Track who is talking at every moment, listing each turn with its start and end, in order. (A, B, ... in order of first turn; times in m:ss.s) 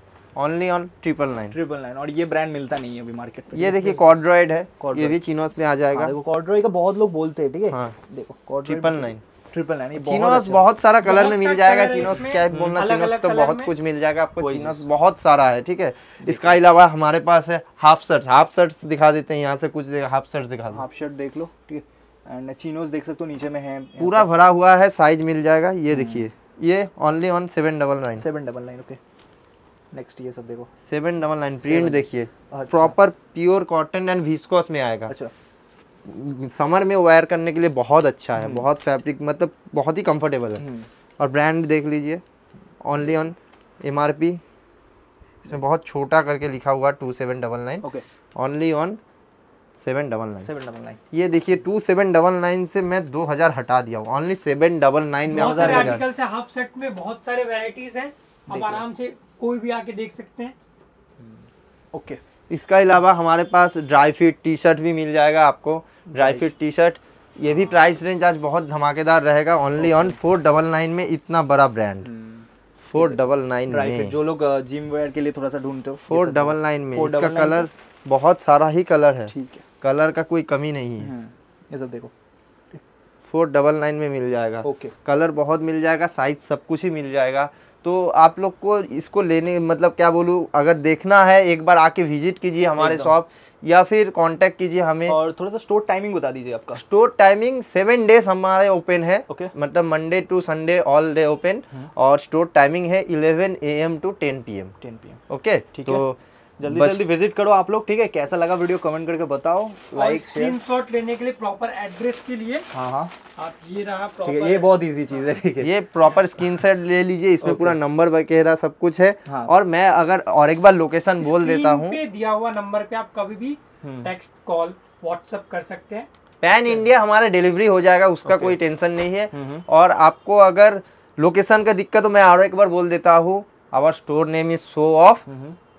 0:00.4-0:01.6 A
0:01.5-0:04.1 B
0:03.5-0:06.1 A
0:04.8-0:05.2 B
0:05.9-0:10.7 B
0:07.7-0:08.0 A
0:08.6-0:09.2 A
0:10.0-0:20.8 A
0:11.0-0:13.7 C
0:12.5-0:12.8 B
0:14.4-0:14.9 B
0:16.2-0:16.6 B
0:20.7-0:24.3 B
0:24.0-0:28.3 A
0:25.9-0:26.3 B
0:28.2-0:29.0 B
0:29.9-0:30.7 B
0:30.9-0:35.1 A
0:31.6-0:33.0 B
0:35.1-0:35.3 B
0:36.0-0:40.6 A
0:38.4-0:38.7 B
0:40.6-0:40.9 B
0:41.2-0:42.2 A
0:42.8-0:44.4 A
0:45.4-0:47.9 A
0:48.4-0:49.0 A
0:49.8-0:50.5 A
0:50.4-0:51.0 B
0:51.1-0:56.0 A
0:55.3-0:56.1 B
0:55.3-1:00.5 C
0:58.5-0:58.8 B
1:01.2-1:02.2 B
1:02.5-1:12.1 A
1:06.1-1:06.5 B
1:07.5-1:07.8 B
1:09.8-1:10.2 B
1:12.0-1:17.7 B
1:12.9-1:14.1 A
1:16.0-1:21.1 A
1:19.3-1:19.6 B
1:21.0-1:22.1 B
1:23.3-1:35.2 A
1:24.6-1:24.9 B
1:32.8-1:33.1 B
1:35.1-1:36.8 B
1:36.8-1:44.8 A
1:44.8-1:45.2 B
1:45.3-1:47.1 A
1:45.7-1:46.0 B
1:46.6-1:50.6 B
1:49.9-1:52.7 C
1:52.7-1:53.1 B
1:53.4-1:55.3 C
1:54.2-1:55.7 B
1:55.6-2:02.0 A
1:57.4-1:57.8 B
1:59.3-1:59.5 B
2:01.2-2:06.1 C
2:03.8-2:04.1 B
2:06.4-2:15.3 A
2:08.2-2:08.6 B
2:09.3-2:09.6 B
2:15.3-2:15.6 B